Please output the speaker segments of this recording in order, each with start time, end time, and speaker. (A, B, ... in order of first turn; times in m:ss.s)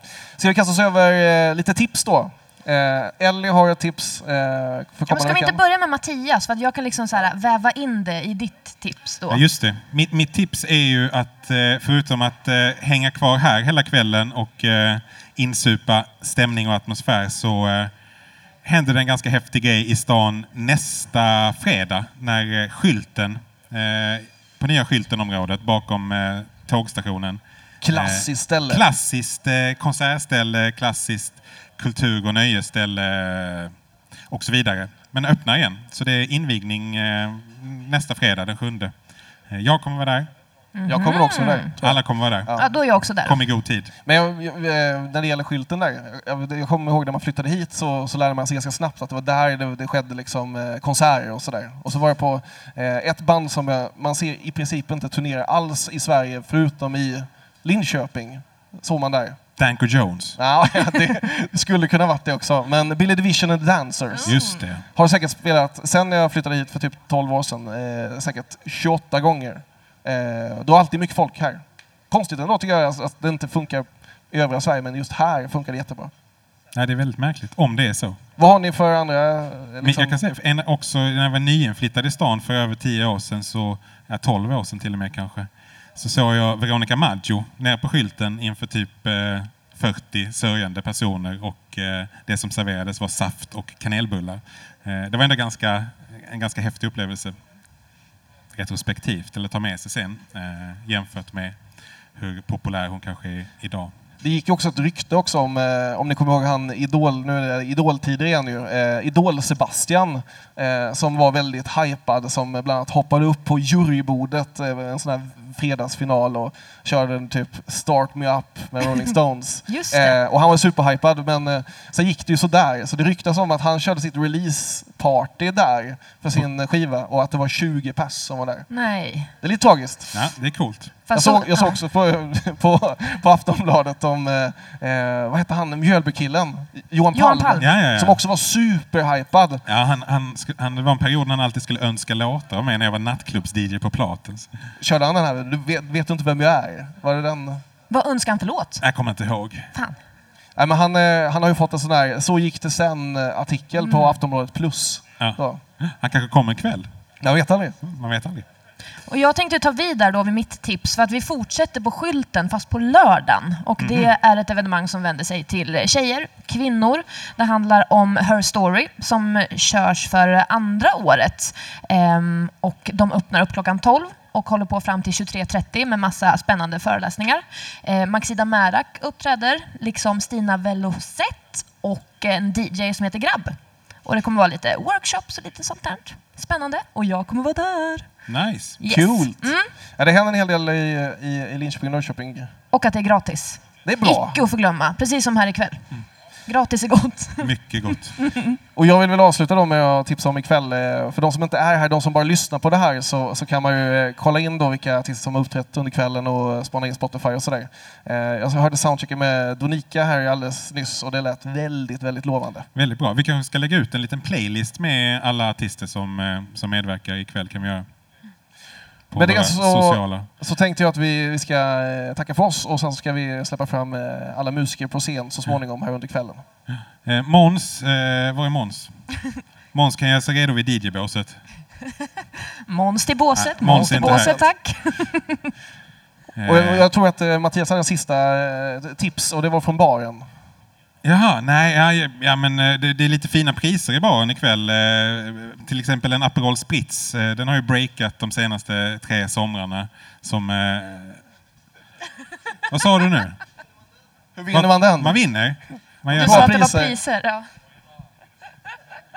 0:00.4-0:05.6 A
0:05.1-0:09.4 B
0:09.3-0:17.9 C
0:18.6-0:33.7 C
0:27.8-0:28.8 A
0:34.3-0:38.9 C
0:39.5-0:40.3 C
0:40.7-0:41.7 B
0:40.9-0:42.7 A
0:41.8-0:42.5 C
0:42.5-0:43.4 B
0:43.2-0:43.9 C
0:44.0-0:59.4 A
0:59.6-1:00.4 C
1:00.4-1:04.4 A
1:04.1-1:04.6 B
1:04.2-1:04.8 C
1:04.9-1:16.1 A
1:16.7-1:18.2 C
1:18.4-1:20.2 A
1:19.8-1:37.4 C
1:38.5-1:41.6 C
1:42.2-1:43.9 C
1:44.2-2:08.6 A
1:59.7-2:00.2 B
2:08.7-2:09.3 B
2:09.4-2:10.2 A
2:10.1-2:11.0 C
2:11.0-2:11.8 B
2:11.1-2:19.6 A
2:17.1-2:17.6 B
2:17.6-2:18.2 C
2:19.6-2:24.5 C
2:24.8-2:27.6 A
2:27.9-2:28.8 B
2:28.8-2:29.7 C
2:30.6-2:35.6 A
2:33.8-2:34.2 B
2:35.2-2:36.9 C
2:37.2-2:37.8 A
2:37.8-2:38.4 C
2:39.1-3:08.1 B
2:43.8-2:44.1 C
3:08.3-3:08.8 C
3:08.8-3:09.7 B
3:08.8-3:12.5 A
3:12.7-3:15.8 B
3:13.8-3:14.4 A
3:16.5-3:17.5 B
3:17.4-3:18.2 C
3:18.2-3:18.6 B
3:18.7-3:32.7 A
3:32.7-3:37.8 C
3:39.1-3:40.3 C
3:39.2-3:46.4 A
3:46.7-3:48.9 C
3:49.7-3:51.4 C
3:52.6-3:55.5 B
3:53.4-3:54.4 C
3:53.6-3:54.5 A
3:56.4-3:56.8 C
3:56.4-4:00.2 A
4:01.0-4:11.2 C
4:12.7-4:13.4 C
4:14.4-4:15.2 A
4:14.5-4:16.6 C
4:16.1-4:17.4 B
4:16.1-4:17.0 A